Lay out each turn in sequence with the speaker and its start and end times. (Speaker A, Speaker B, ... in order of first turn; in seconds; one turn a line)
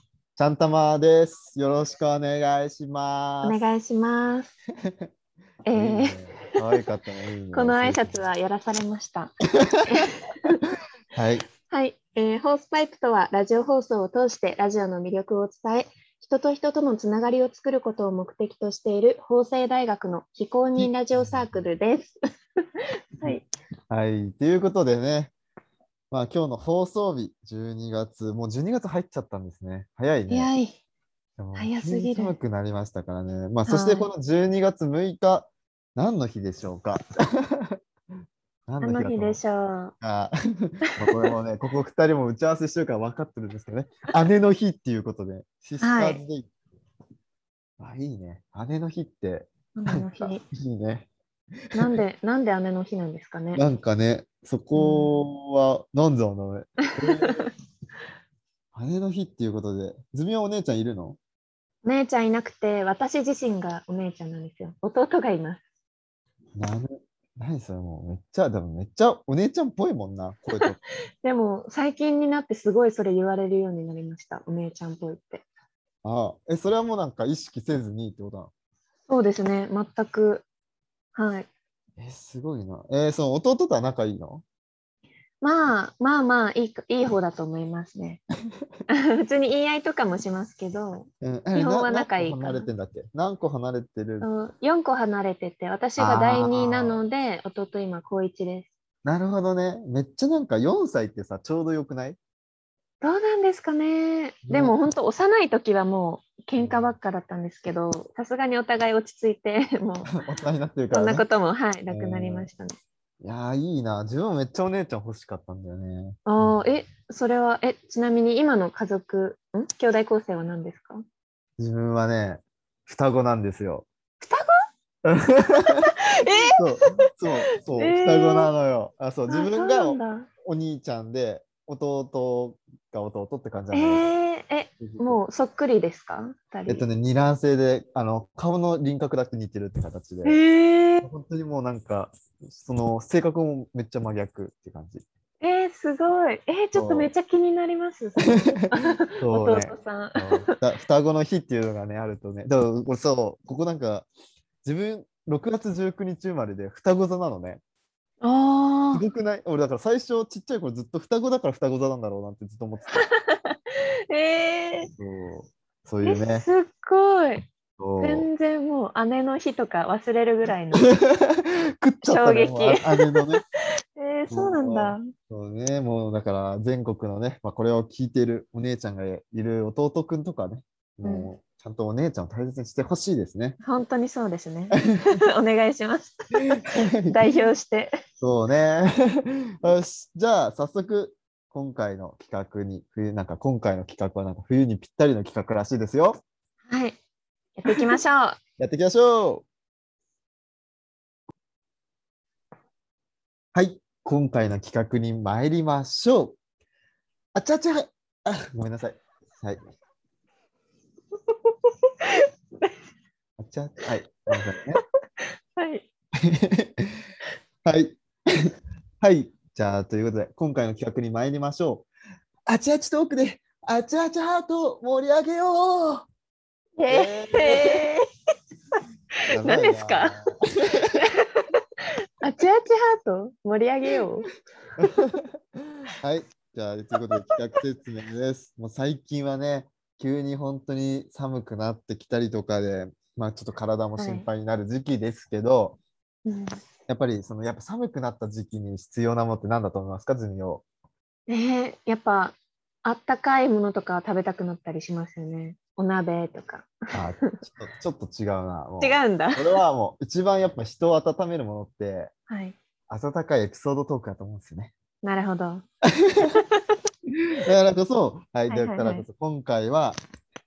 Speaker A: 0.3-3.6
Speaker B: 3.4-4.5
Speaker B: 5.7-6.2
Speaker A: 5.7-8.2
Speaker B: 7.5-9.3
Speaker A: 9.6-9.8
Speaker B: 9.8-10.6
Speaker A: 11.1-11.4
Speaker B: 11.7-22.1
Speaker A: 20.8-21.6
Speaker B: 23.2-23.5
Speaker A: 23.9-25.3
Speaker A: 26.1-30.5
Speaker B: 30.3-30.8
Speaker A: 31.4-37.8
Speaker B: 31.5-32.4
Speaker B: 33.7-34.1
Speaker A: 38.7-39.4
Speaker B: 38.8-39.9
Speaker A: 40.0-46.5
Speaker B: 45.8-46.2
Speaker A: 47.8-51.1
Speaker B: 49.7-50.4
Speaker B: 51.7-53.6
Speaker A: 53.5-57.4
Speaker B: 54.7-55.3
Speaker B: 57.0-57.5
Speaker A: 58.7-61.2
Speaker B: 61.8-65.6
Speaker A: 66.5-70.8
Speaker B: 71.2-75.4
Speaker A: 76.0-78.5
Speaker B: 79.1-80.4
Speaker B: 81.1-81.5
Speaker A: 82.0-84.4
Speaker B: 85.4-88.2
Speaker B: 88.9-92.7
Speaker A: 91.2-94.3
Speaker B: 94.2-98.7
Speaker A: 96.0-97.0
Speaker A: 99.0-102.2
Speaker B: 103.0-110.1
Speaker A: 104.4-104.8
Speaker A: 106.6-106.9
Speaker A: 110.1-111.2
Speaker B: 110.9-112.8
Speaker A: 111.9-112.5
Speaker A: 113.2-116.6
Speaker B: 116.2-121.0
Speaker A: 121.6-123.9
Speaker B: 124.2-124.5
Speaker A: 125.0-134.1
Speaker B: 125.7-127.0
Speaker B: 127.7-128.5
Speaker B: 129.3-130.3
Speaker B: 133.7-136.9
Speaker A: 134.8-135.2
Speaker A: 136.7-140.4
Speaker B: 140.2-141.1
Speaker A: 141.0-145.0
Speaker B: 145.4-150.6
Speaker A: 146.8-147.1
Speaker A: 148.3-154.1
Speaker A: 154.6-157.6
Speaker B: 158.2-159.0
Speaker A: 158.9-163.0
Speaker B: 162.9-163.6
Speaker B: 164.1-164.9
Speaker A: 165.0-166.5
Speaker B: 166.0-167.5
Speaker A: 167.8-168.3
Speaker B: 168.0-170.9
Speaker A: 170.8-173.4
Speaker B: 172.0-173.2
Speaker B: 174.0-175.1
Speaker A: 174.3-183.6
Speaker B: 181.0-181.3
Speaker B: 183.6-187.9
Speaker A: 186.4-187.2
Speaker A: 188.2-196.2
Speaker B: 196.7-197.0
Speaker B: 197.6-198.4
Speaker A: 198.6-199.5
Speaker A: 203.5-206.4
Speaker A: 207.3-209.6
Speaker A: 213.4-214.8
Speaker B: 215.6-215.9
Speaker A: 216.2-216.9
Speaker A: 217.7-221.9
Speaker A: 222.5-226.1
Speaker B: 226.8-228.0
Speaker A: 226.9-227.8
Speaker A: 229.3-231.0
Speaker B: 229.4-230.2
Speaker B: 230.9-231.5
Speaker B: 232.2-234.3
Speaker A: 234.8-235.4
Speaker A: 236.0-245.8
Speaker B: 244.0-244.3
Speaker B: 246.2-246.6
Speaker A: 246.9-250.6
Speaker B: 251.3-257.3
Speaker A: 256.9-262.1
Speaker B: 258.8-259.6
Speaker B: 262.3-262.6
Speaker A: 262.9-264.7
Speaker B: 265.0-265.6
Speaker A: 265.9-266.4
Speaker A: 267.4-270.0
Speaker B: 268.5-269.1